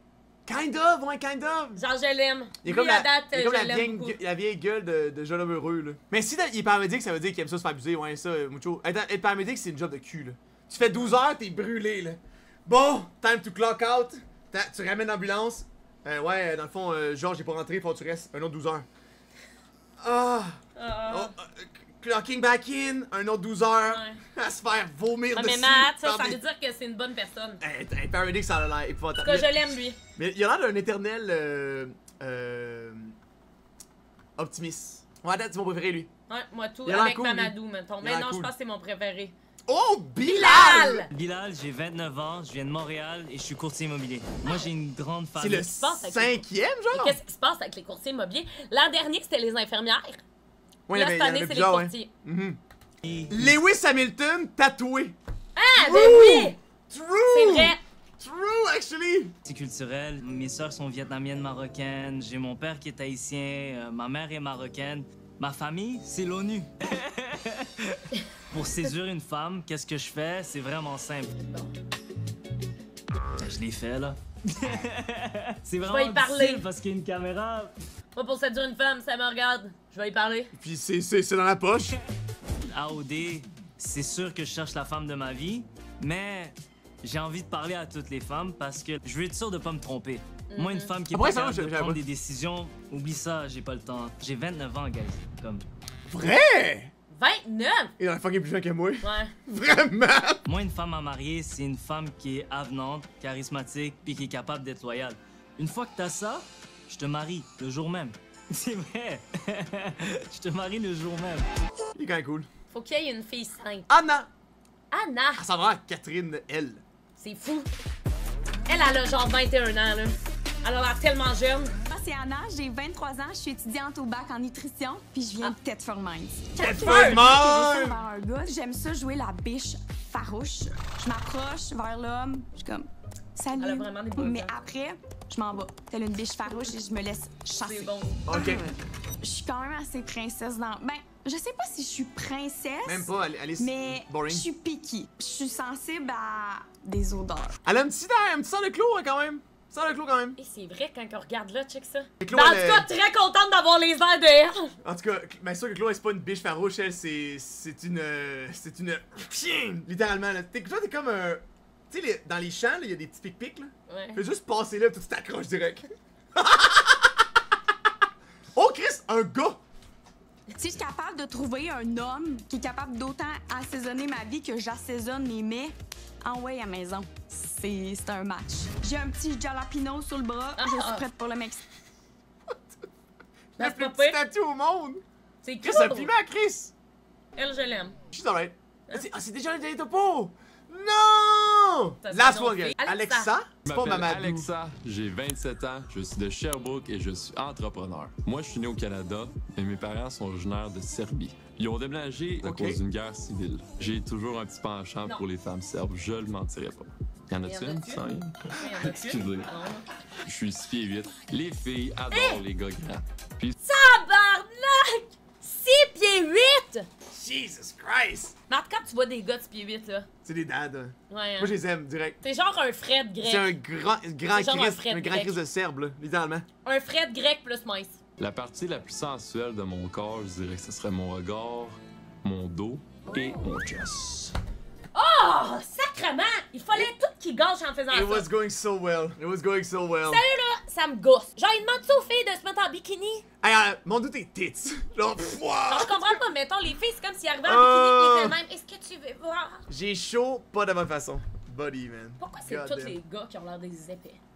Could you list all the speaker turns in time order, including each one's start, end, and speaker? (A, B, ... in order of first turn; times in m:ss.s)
0:00.4-0:01.8 A
0:01.7-0:04.2 B
0:02.6-0:18.8 A
0:20.0-0:20.6 A
0:20.8-0:21.3 B
0:21.1-0:26.4 A
0:23.9-0:24.2 B
0:25.3-0:27.6 B
0:27.6-0:29.6 A
0:29.2-0:30.0 B
0:30.2-0:33.1 A
0:34.4-0:36.1 A
0:36.3-0:39.3 B
0:36.8-0:38.5 A
0:39.7-0:41.0 A
0:40.2-0:41.0 B
0:41.1-0:45.6 C
0:45.4-0:47.2 A
0:45.6-0:50.2 B
0:50.9-0:52.6 A
0:50.9-0:52.1 B
0:53.0-0:53.4 C
0:53.3-0:55.2 A
0:55.6-0:56.6 B
0:55.8-0:59.3 A
0:57.3-0:57.8 B
0:59.4-1:11.4 C
1:13.4-1:17.7 C
1:15.8-1:16.6 B
1:18.1-1:20.5 B
1:20.5-1:21.9 A
1:22.7-1:35.6 C
1:30.5-1:30.9 B
1:31.1-1:32.0 A
1:36.1-1:36.9 A
1:37.1-1:37.9 B
1:38.0-1:40.4 A
1:39.0-1:39.3 B
1:40.4-1:51.4 C
1:52.0-1:52.5 A
1:52.7-1:53.9 B
1:53.9-1:54.3 A
1:54.9-1:55.4 B
1:55.4-1:56.8 A
1:57.2-1:57.7 B
1:58.7-2:01.7 B
2:01.9-2:27.6 D
2:06.6-2:08.0 A
2:06.6-2:07.2 B
2:13.6-2:14.5 B
2:17.6-2:18.2 B
2:18.3-2:18.6 A
2:22.8-2:24.4 A
2:27.6-2:30.4 A
2:30.4-2:34.7 B
2:32.2-2:32.9 A
2:34.8-2:47.1 A
2:43.9-2:44.2 B
2:48.5-2:49.6 A
2:50.5-3:01.6 D
3:00.6-3:01.0 B
3:03.6-3:05.0 A
3:03.6-3:04.2 B
3:05.4-3:06.1 B
3:05.6-3:06.7 A
3:07.4-3:08.0 B
3:08.1-3:14.5 A
3:12.0-3:13.3 B
3:13.6-3:29.5 E
3:22.4-3:22.8 A
3:27.4-3:30.0 B
3:30.2-3:33.5 E
3:32.1-3:32.4 B
3:33.6-3:36.9 B
3:37.1-3:38.3 A
3:38.5-3:40.1 B
3:40.2-3:42.2 A
3:41.1-3:41.5 B
3:42.2-3:43.6 B
3:43.2-3:46.4 A
3:44.3-3:45.4 B
3:46.6-3:48.0 B
3:48.2-3:54.3 E
3:54.9-3:58.3 B
3:57.9-4:00.2 A
4:00.1-4:03.2 B
4:03.4-4:06.1 A
4:05.7-4:09.6 B
4:07.4-4:08.4 A
4:09.7-4:12.9 A
4:12.2-4:14.2 B